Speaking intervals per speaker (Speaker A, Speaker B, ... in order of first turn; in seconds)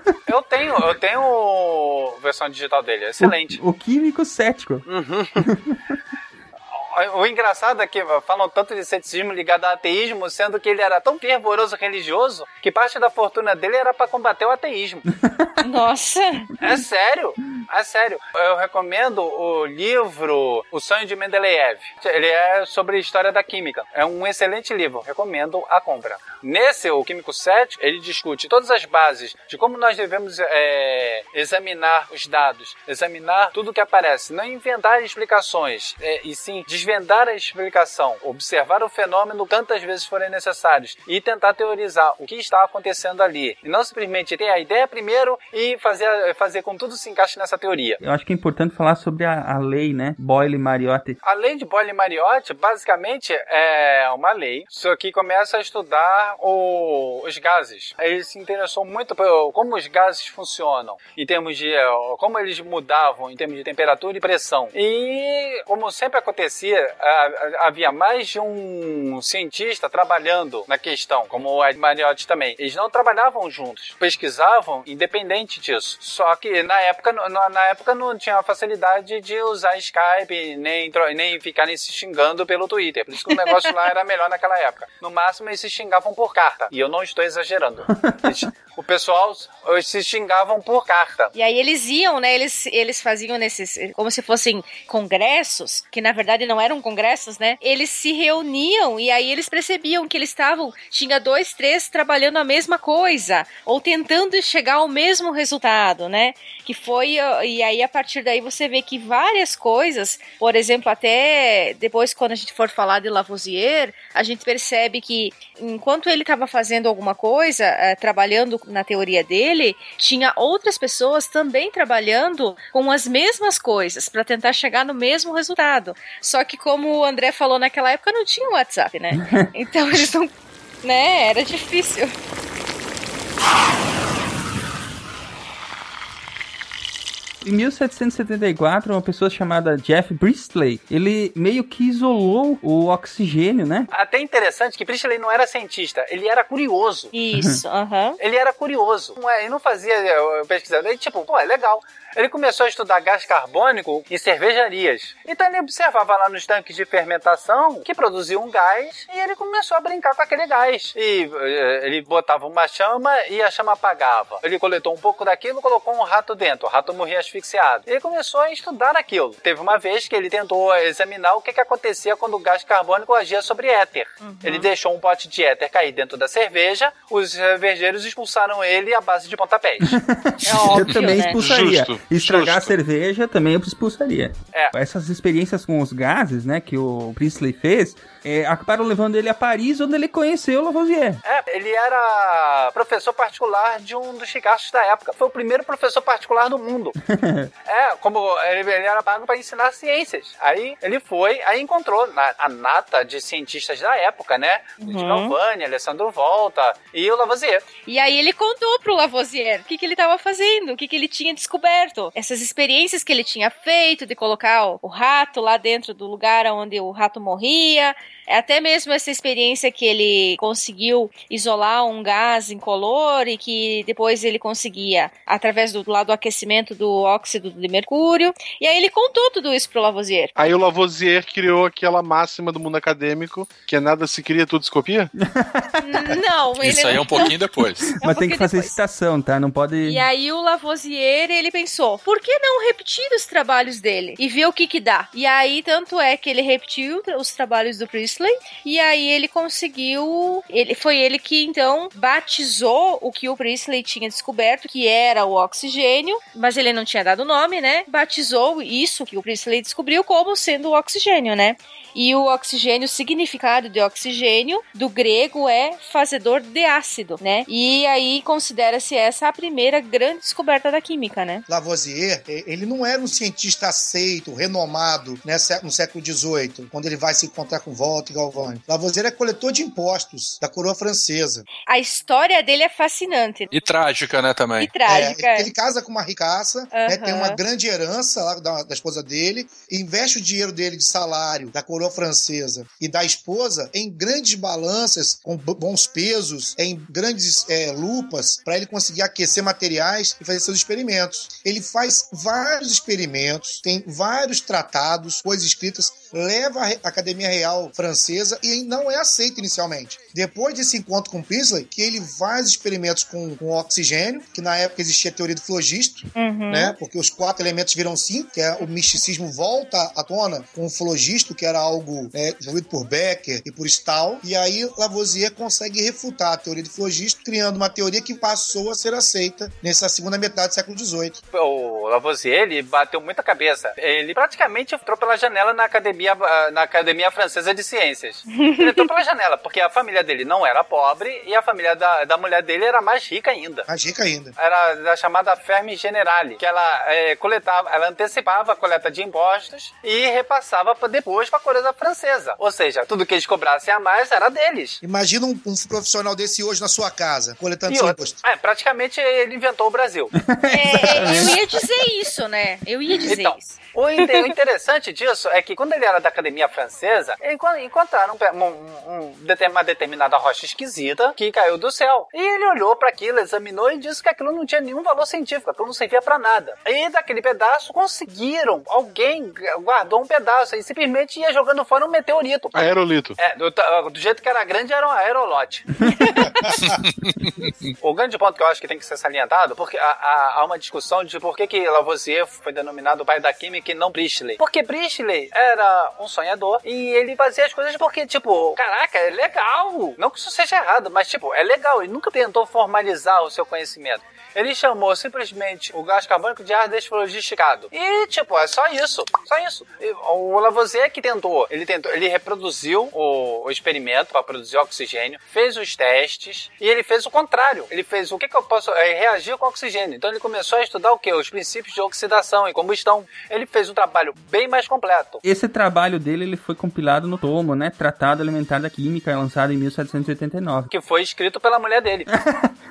Speaker A: 0.3-3.6, 4.9-5.4, 6.7-15.1, 16.6-48.0, 51.2-91.3, 143.9-147.1, 148.2-180.0, 191.2-196.9, 197.7-207.7, 331.3-343.7, 344.4-354.8, 357.7-360.1, 363.1-385.6, 387.8-425.2, 430.7-432.1
Speaker B: 3.2-4.8, 5.5-5.8, 48.0-51.2, 129.2-129.5, 137.4-143.9, 179.8-191.2, 197.1-197.5, 235.2-236.2, 238.0-240.0, 360.2-361.7, 425.2-430.7, 432.1-432.5
Speaker C: 15.6-16.5, 91.3-130.3, 130.8-132.1, 147.1-148.2, 174.2-174.7, 180.5-181.4, 204.8-205.3, 207.9-230.3, 235.8-237.4, 238.0-238.8, 239.8-271.4, 281.7-283.5, 284.6-285.5, 286.7-287.4, 316.2-316.8, 338.4-338.8, 360.5-364.2, 386.0-386.4
Speaker D: 180.5-182.8, 230.4-235.1, 382.6-383.2
Speaker E: 236.6-237.9, 283.5-284.7
Speaker F: 271.5-281.4, 284.9-331.2, 343.7-344.3, 354.8-358.2